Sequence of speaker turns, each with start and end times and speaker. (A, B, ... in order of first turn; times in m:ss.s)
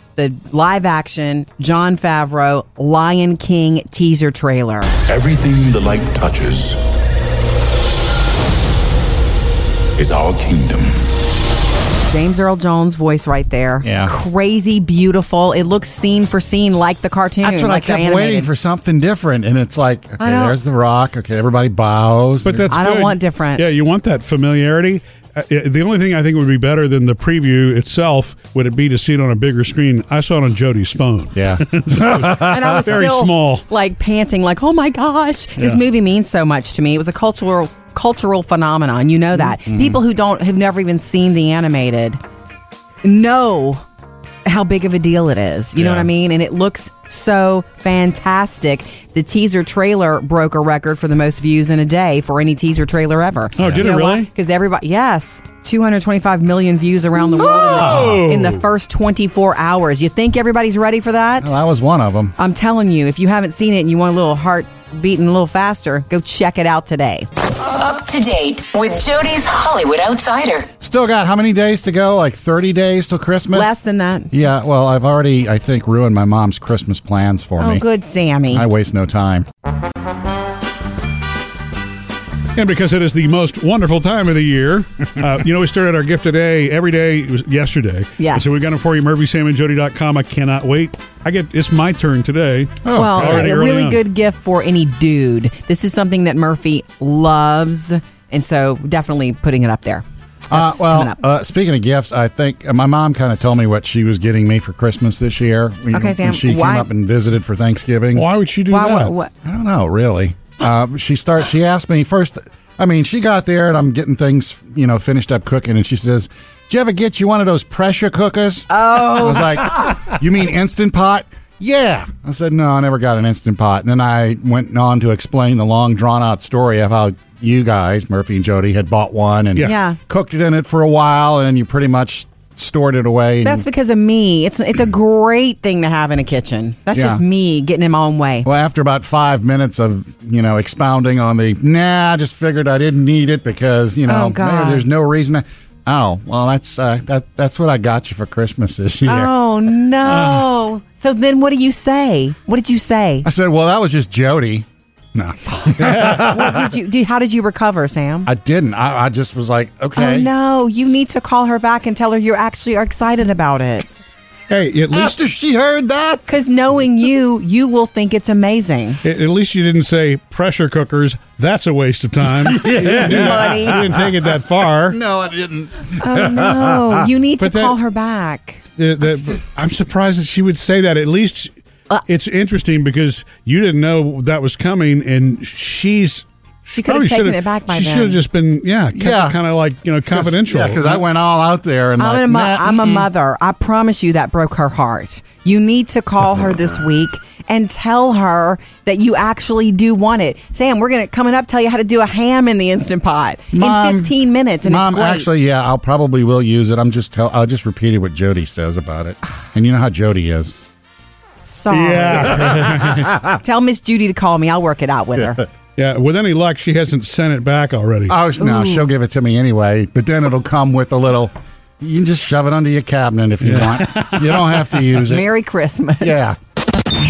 0:00.2-0:04.9 A
0:05.1-0:06.8 B
0:10.0-0:11.0 B
0:12.1-0:18.5 A
0:13.8-0:14.1 C
0:17.4-0:22.8 C
0:20.2-0:20.6 A
0:22.4-0:33.6 D
0:22.7-0:23.6 A
0:31.4-0:32.9 C
0:32.4-0:42.2 A
0:39.5-0:40.0 C
0:43.0-0:43.8 A
0:44.5-1:01.6 A
0:45.8-0:46.1 C
0:53.6-0:53.9 C
0:53.6-0:54.3 D
0:57.4-0:58.6 D
0:57.4-0:58.2 C
1:01.4-1:02.3 C
1:02.4-1:07.3 A
1:07.6-1:10.7 E
1:10.8-1:13.7 C
1:13.5-1:14.3 A
1:14.3-1:17.8 C
1:17.6-1:18.6 A
1:18.5-1:19.5 C
1:22.6-1:34.0 D
1:28.2-1:28.7 A
1:32.8-1:33.5 C
1:32.9-1:41.2 A
1:40.5-1:48.3 C
1:45.9-1:46.9 A
1:48.2-1:49.1 D
1:48.7-1:49.3 A
1:49.4-2:13.6 C
1:58.7-1:59.7 A
2:09.6-2:10.0 A
2:13.4-2:18.5 A
2:16.9-2:17.2 C
2:18.4-2:29.3 C
2:24.1-2:24.9 A
2:29.1-2:33.3 A
2:30.1-2:30.4 D
2:33.2-2:36.7 C
2:35.5-2:38.3 A
2:35.8-2:36.3 D
2:38.3-2:40.3 C
2:40.0-2:43.9 A
2:44.5-2:45.2 D
2:44.9-2:46.3 C
2:46.3-2:49.0 A
2:49.0-2:55.0 D
2:52.3-2:54.3 C
2:53.0-2:53.8 A
2:54.9-2:57.1 C
2:56.0-2:58.6 A
2:57.4-2:57.8 D
2:58.8-3:01.5 D
3:02.1-3:11.0 D
3:06.7-3:08.2 A
3:08.9-3:09.4 C
3:10.1-3:13.1 C
3:12.0-3:25.3 A
3:23.5-3:30.6 C
3:31.4-3:32.5 A
3:31.7-3:33.1 D
3:32.4-3:33.2 C
3:33.4-3:35.4 A
3:35.8-3:38.2 D
3:38.1-3:45.3 C
3:38.4-3:38.9 A
3:43.4-3:44.7 D
3:45.1-3:46.2 A
3:46.0-3:46.4 C